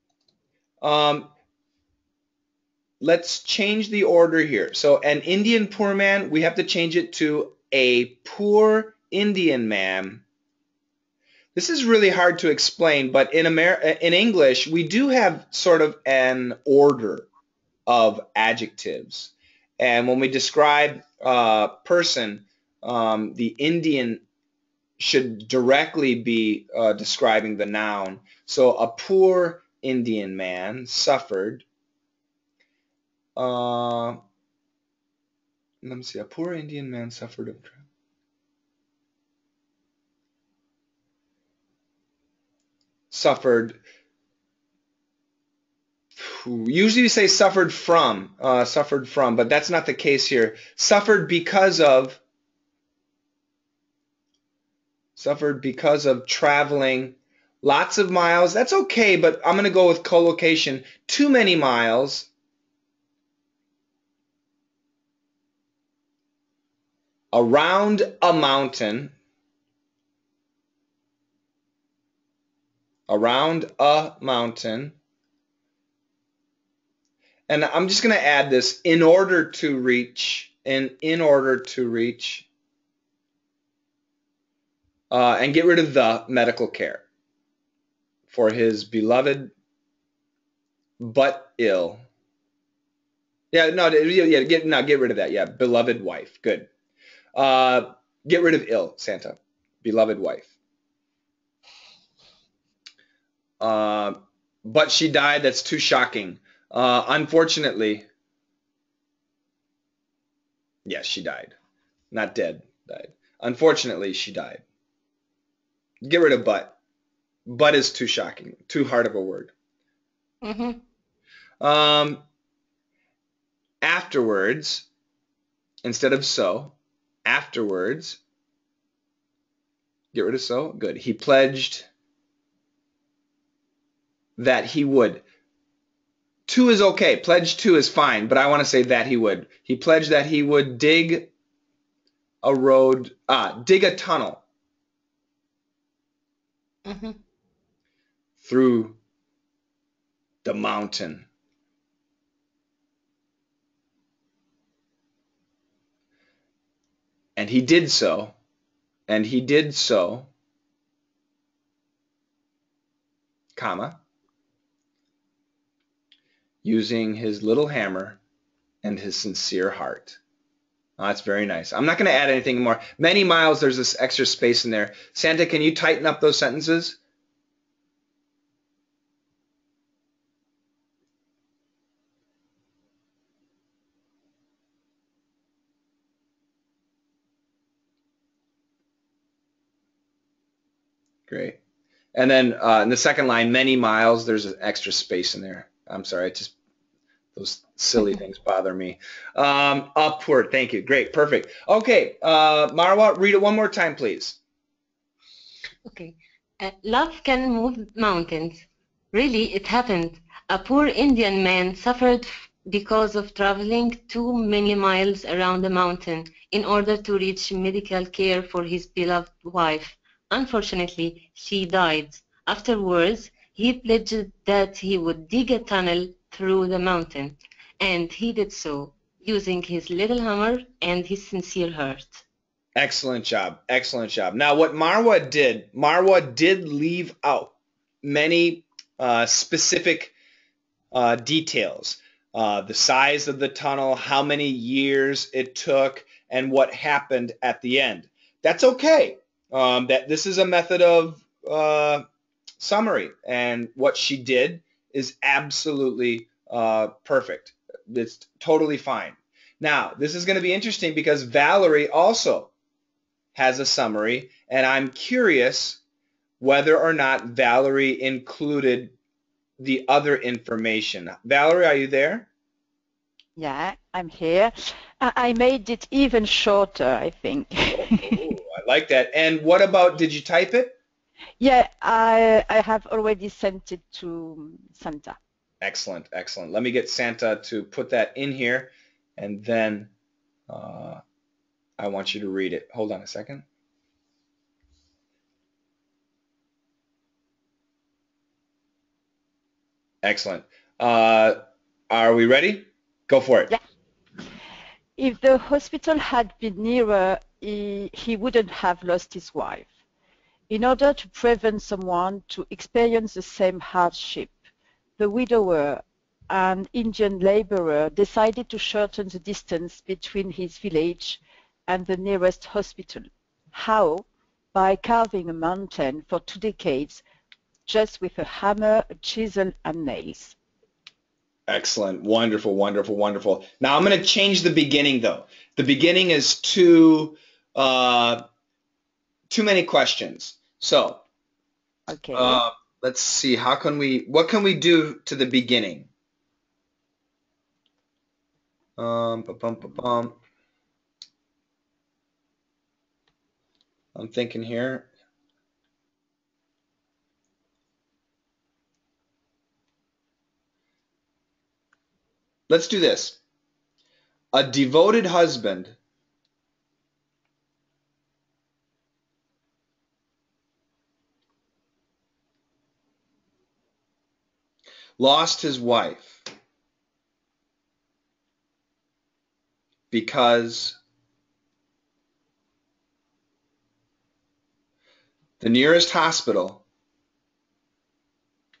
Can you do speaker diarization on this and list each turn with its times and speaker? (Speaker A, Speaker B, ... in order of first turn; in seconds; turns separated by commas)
Speaker A: 0.8-1.3, Speaker A: 3.0-10.2, Speaker A: 11.5-17.3, Speaker A: 17.9-24.2, Speaker A: 25.0-31.6, Speaker A: 33.4-34.2, Speaker A: 35.8-37.8, Speaker A: 43.1-43.8, Speaker A: 46.2-52.2, Speaker A: 55.1-62.3, Speaker A: 67.3-69.1, Speaker A: 73.1-75.0, Speaker A: 77.5-82.5, Speaker A: 85.1-87.0, Speaker A: 88.3-89.5, Speaker A: 91.0-92.0, Speaker A: 93.5-96.7, Speaker A: 97.3-100.5, Speaker A: 103.6-108.0, Speaker A: 110.8-111.5, Speaker A: 112.1-114.6, Speaker A: 116.0-116.8, Speaker A: 117.5-119.5, Speaker B: 120.4-120.8, Speaker A: 121.6-122.2, Speaker A: 123.8-124.9, Speaker A: 125.8-126.7, Speaker A: 127.2-128.2, Speaker A: 130.1-131.9, Speaker A: 134.4-135.2, Speaker A: 136.5-141.3, Speaker A: 142.4-144.4, Speaker B: 146.8-147.2, Speaker A: 148.4-149.0, Speaker A: 150.4-151.2, Speaker A: 157.3-158.3, Speaker A: 159.1-160.3, Speaker A: 163.6-164.0, Speaker A: 166.6-168.2, Speaker A: 168.8-170.2, Speaker A: 171.0-177.0, Speaker A: 191.3-191.6, Speaker A: 192.1-196.5, Speaker A: 197.3-204.4, Speaker B: 205.8-232.2, Speaker A: 232.8-240.1, Speaker A: 240.9-252.0, Speaker A: 252.6-262.5, Speaker A: 263.3-265.8, Speaker A: 266.4-268.9, Speaker A: 269.6-272.3, Speaker C: 273.4-278.3, Speaker A: 277.7-280.8, Speaker C: 281.4-285.2, Speaker A: 285.6-289.9, Speaker A: 290.5-291.0, Speaker A: 291.8-293.4, Speaker A: 300.0-303.5, Speaker C: 305.0-309.7, Speaker C: 310.5-314.3, Speaker C: 315.0-327.0, Speaker C: 327.6-330.3, Speaker A: 331.5-338.2, Speaker A: 339.3-341.0, Speaker C: 341.9-342.4, Speaker A: 342.1-345.9, Speaker A: 348.8-350.2, Speaker A: 353.9-354.9, Speaker A: 362.5-363.2, Speaker A: 364.3-365.7, Speaker A: 375.0-376.2, Speaker A: 379.9-380.8, Speaker A: 385.4-386.6